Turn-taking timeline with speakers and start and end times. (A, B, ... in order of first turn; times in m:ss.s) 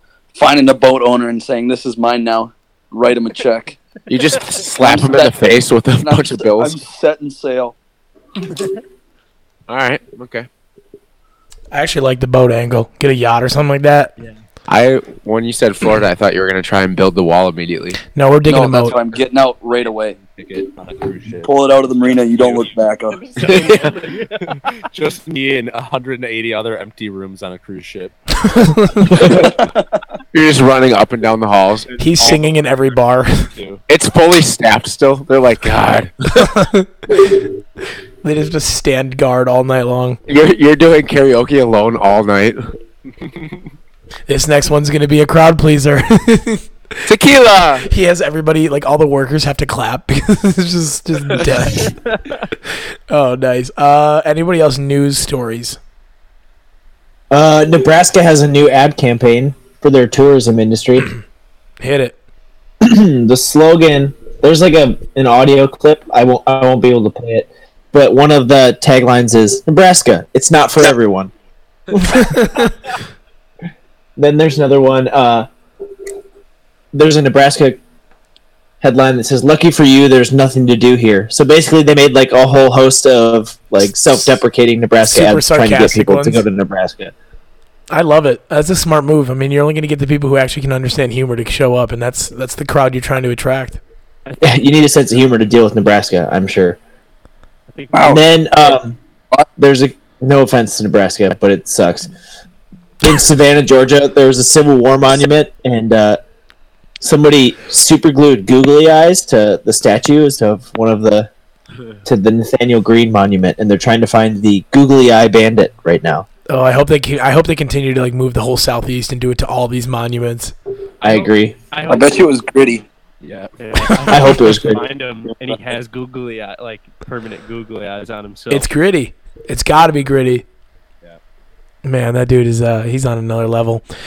0:00.3-0:03.8 A
0:04.1-0:06.8 B
0:04.8-0:07.7 A
0:09.7-0:10.5 B
0:11.7-0:14.1 C
0:14.7-0:18.0 B
0:18.1-0:19.0 C
0:18.4-0:20.2 A
0:19.1-0:28.4 D
0:21.4-0:23.3 A
0:23.4-0:24.8 E
0:23.4-0:23.9 B
0:28.4-0:29.2 C
0:29.1-0:29.6 D
0:29.1-0:29.5 B
0:29.3-0:29.8 A
0:30.3-0:32.3 B
0:31.9-0:32.5 E
0:32.0-0:33.5 C
0:33.5-0:33.8 D
0:33.9-0:36.5 B
0:36.3-0:37.5 C
0:38.2-0:40.2 C
0:40.3-0:42.7 B
0:43.2-0:43.6 D
0:44.3-0:46.6 C
0:47.1-0:47.9 B
0:47.8-0:52.0 C
0:51.9-0:52.2 E
0:53.1-0:55.8 C
0:57.3-1:01.1 F
1:01.8-1:02.2 C
1:02.8-1:11.3 F
1:11.9-1:12.6 F
1:12.2-1:12.7 C
1:14.2-1:15.5 F
1:16.9-1:17.8 F
1:18.8-1:27.1 F
1:25.0-1:26.4 C
1:27.9-1:33.8 C
1:34.2-1:34.6 E
1:34.4-1:36.8 F
1:37.7-1:38.2 E
1:37.9-1:38.2 A
1:38.0-1:39.0 F
1:39.6-1:42.1 F
1:43.0-1:46.2 F
1:47.0-1:51.3 F
1:52.0-1:56.2 F
1:56.5-2:00.5 C
2:01.0-2:02.3 E
2:01.0-2:01.5 F
2:01.9-2:02.8 A
2:03.2-2:03.5 D
2:03.6-2:08.7 E
2:03.9-2:04.3 C
2:04.1-2:04.8 F
2:08.5-2:10.4 C
2:11.8-2:13.8 C